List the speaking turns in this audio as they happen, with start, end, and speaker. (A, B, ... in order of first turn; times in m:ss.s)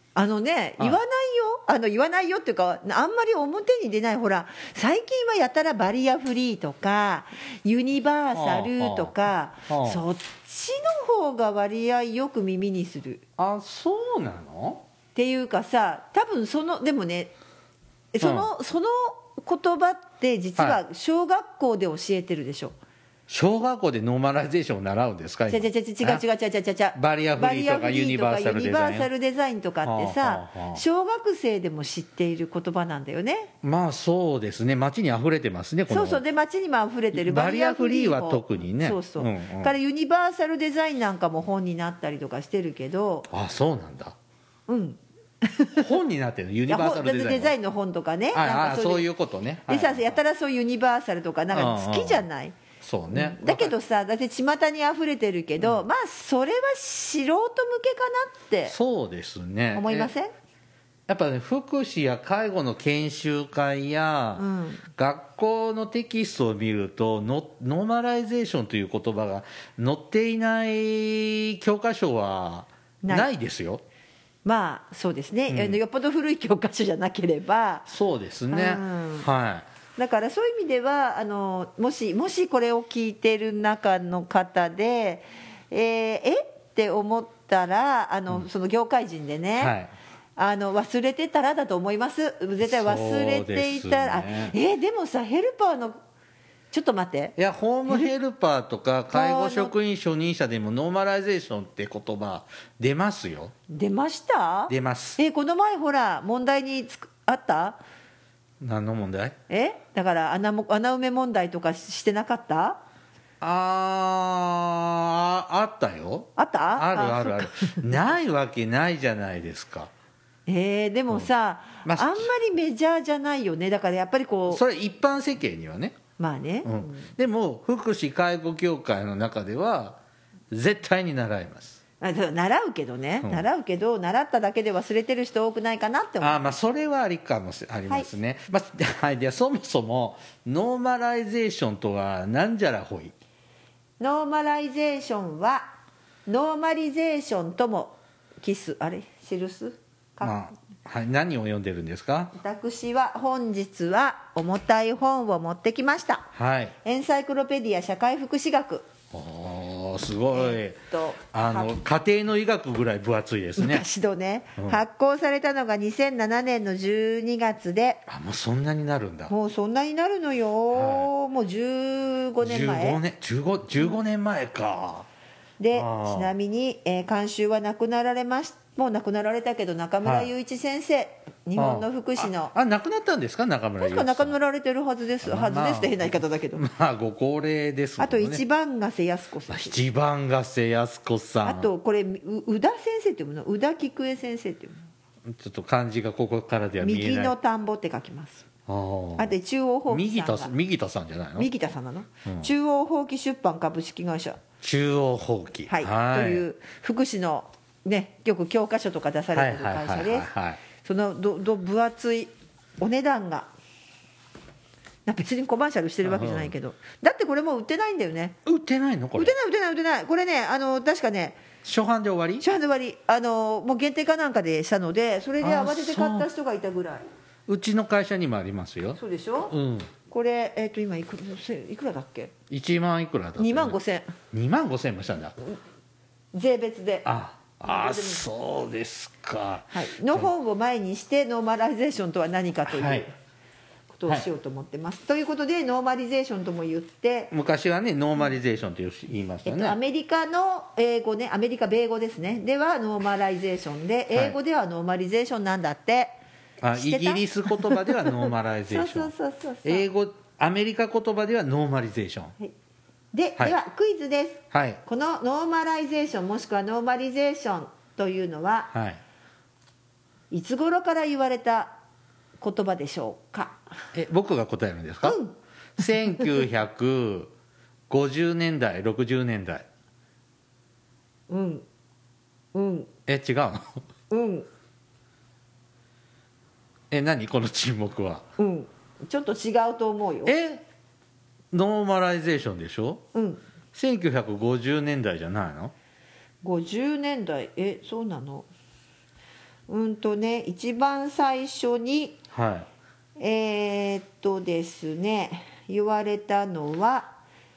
0:00.2-0:13.2 A
0:08.3-0:09.1 B
0:09.7-0:10.0 B
0:13.4-0:14.8 B
0:15.2-0:17.3 A
0:18.1-0:22.8 A
0:18.2-0:18.5 B
0:23.3-0:26.2 B
0:25.5-0:33.5 A
0:27.0-0:29.1 B
0:29.8-0:30.8 B
0:33.6-0:36.2 B
0:35.9-0:43.3 A
0:37.1-0:39.7 B
0:43.3-0:44.2 B
0:44.7-0:45.9 A
0:45.8-0:47.5 B
0:46.7-0:49.1 A
0:48.3-0:50.2 B
0:49.7-0:52.6 A
0:51.5-0:52.2 B
0:52.8-0:53.8 B
0:53.1-0:58.8 A
0:58.7-1:00.1 B
0:59.8-1:00.3 A
1:01.1-1:13.8 B
1:04.4-1:04.8 A
1:13.0-1:13.3 A
1:14.4-1:17.9 A
1:15.5-1:15.8 B
1:17.9-1:19.7 B
1:18.5-1:19.3 A
1:20.0-1:29.7 A
1:29.6-1:29.9 B
1:30.4-1:36.0 A
1:32.6-1:34.6 B
1:36.7-1:37.4 A
1:37.4-1:43.5 B
1:39.1-1:39.7 A
1:43.7-1:47.8 A
1:44.7-1:45.2 B
1:48.6-1:49.4 B
1:49.5-1:52.8 A
1:53.4-1:59.9 B
1:56.4-1:58.0 A
2:00.5-2:04.6 A
2:01.8-2:02.3 B
2:04.5-2:06.0 B
2:06.2-2:07.1 A
2:06.6-2:10.0 B
2:10.5-2:11.8 B
2:12.0-2:16.4 A
2:16.2-2:23.1 B
2:24.0-2:25.7 A
2:26.3-2:30.4 A
2:30.2-2:32.3 B
2:32.3-2:36.3 A
2:36.3-2:36.8 B
2:36.8-2:38.9 A
2:39.1-2:40.8 B
2:40.3-2:41.8 A
2:41.3-2:43.8 B
2:43.6-2:48.0 A
2:48.1-2:49.3 B
2:49.3-2:53.0 A
2:50.7-2:51.1 B
2:52.4-2:55.1 B
2:55.6-3:02.5 A
2:55.7-2:56.3 B
3:00.0-3:00.3 B
3:01.6-3:04.4 B
3:03.8-3:06.6 A
3:05.2-3:08.4 B
3:08.0-3:09.8 A
3:09.5-3:11.7 B
3:11.4-3:14.9 A
3:15.3-3:17.4 B
3:16.8-3:18.4 A
3:18.7-3:19.4 B
3:19.2-3:20.5 A
3:19.9-3:21.5 B
3:21.4-3:24.4 A
3:24.6-3:26.4 B
3:25.7-3:33.5 A
3:29.3-3:30.6 B
3:35.1-3:38.4 A
3:36.0-3:36.5 B
3:38.5-3:39.4 B
3:39.2-3:41.4 A
3:41.6-3:42.4 B
3:42.4-3:47.0 A
3:45.4-3:46.3 B
3:47.5-3:49.0 B
3:49.0-3:49.5 A
3:49.5-3:49.9 B
3:50.1-3:52.3 A
3:52.5-3:53.8 B
3:53.4-3:54.1 A
3:54.3-3:55.4 B
3:56.3-3:57.1 A
3:57.0-4:00.3 B
3:57.6-3:58.2 A
3:59.7-4:03.1 A
4:02.7-4:03.1 B
4:03.9-4:07.3 A
4:07.3-4:09.8 B
4:09.5-4:16.1 A
4:16.6-4:19.1 B
4:16.8-4:19.9 A
4:19.6-4:22.4 B
4:23.1-4:28.7 A
4:24.5-4:24.8 B
4:28.7-4:29.0 B
4:30.3-4:31.8 A
4:32.4-4:33.6 A
4:33.9-4:35.2 B
4:35.0-4:35.3 A
4:35.8-4:37.3 B
4:37.9-4:39.7 B
4:41.3-4:41.6 A
4:42.5-4:42.9 A
4:43.1-4:43.8 B
4:44.1-4:44.5 A
4:46.9-4:48.3 B
4:48.4-4:50.4 A
4:50.3-4:50.6 B
4:51.5-4:53.0 B
4:53.1-4:53.4 A
4:53.7-4:55.7 B
4:56.4-4:58.5 A
4:59.7-5:02.2 A
5:02.3-5:02.7 B
5:03.2-5:07.2 A